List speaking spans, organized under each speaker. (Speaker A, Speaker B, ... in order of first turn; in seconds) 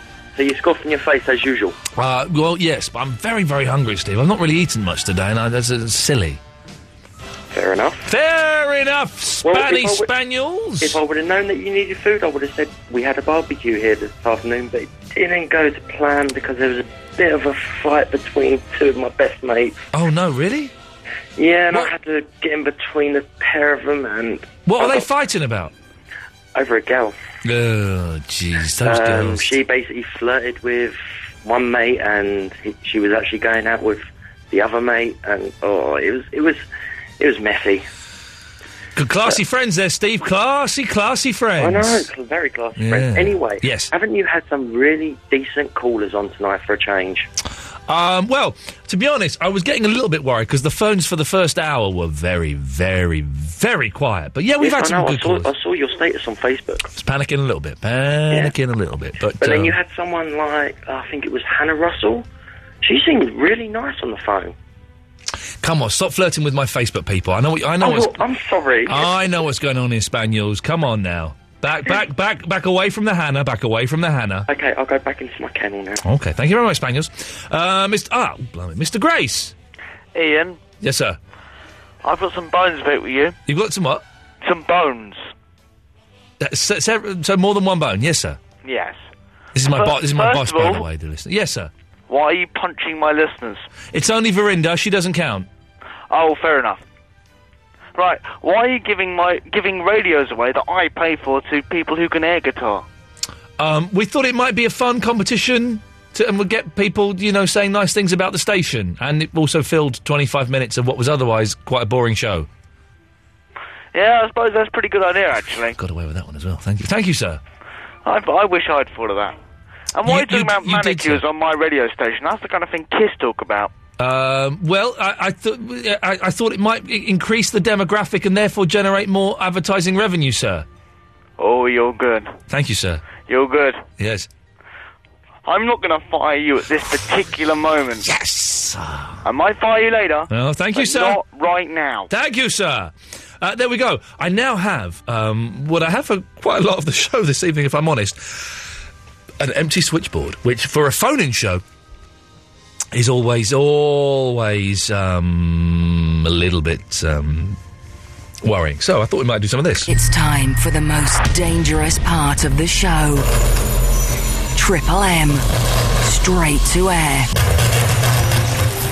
Speaker A: 0.3-1.8, 7.5-8.1, 9.4-10.1, 10.8-19.8, 21.4-25.0, 26.5-27.1, 28.8-36.6, 37.2-37.9, 41.6-47.3, 54.6-56.9, 59.4-62.2, 62.8-64.5, 67.8-69.1, 74.5-76.0
Speaker B: 1.9-6.4, 8.1-11.0, 19.9-20.7, 24.6-25.7, 27.4-29.5, 39.0-42.1, 42.8-43.9, 47.9-55.5, 57.0-59.8, 65.6-68.2, 68.8-74.5, 76.0-79.5, 80.8-81.2, 83.5-84.0, 86.4-88.4, 89.5-91.7, 93.9-95.5, 103.6-112.5, 115.7-117.4, 120.0-121.2, 124.0-130.7, 132.5-133.1, 134.0-134.3, 138.0-139.2, 140.3-141.2, 142.1-148.7, 149.4-151.6, 152.9-157.6, 158.4-159.9
Speaker C: 80.1-80.6, 82.0-83.3, 84.4-85.2, 88.6-89.0, 89.6-90.8, 92.1-93.7, 96.1-96.8, 97.9-102.8, 113.9-115.8, 118.0-119.4, 119.9-123.7, 131.4-132.4, 133.1-133.8, 135.4-138.1, 139.2-142.1
Speaker D: 159.8-163.3, 164.5-165.4, 166.0-167.3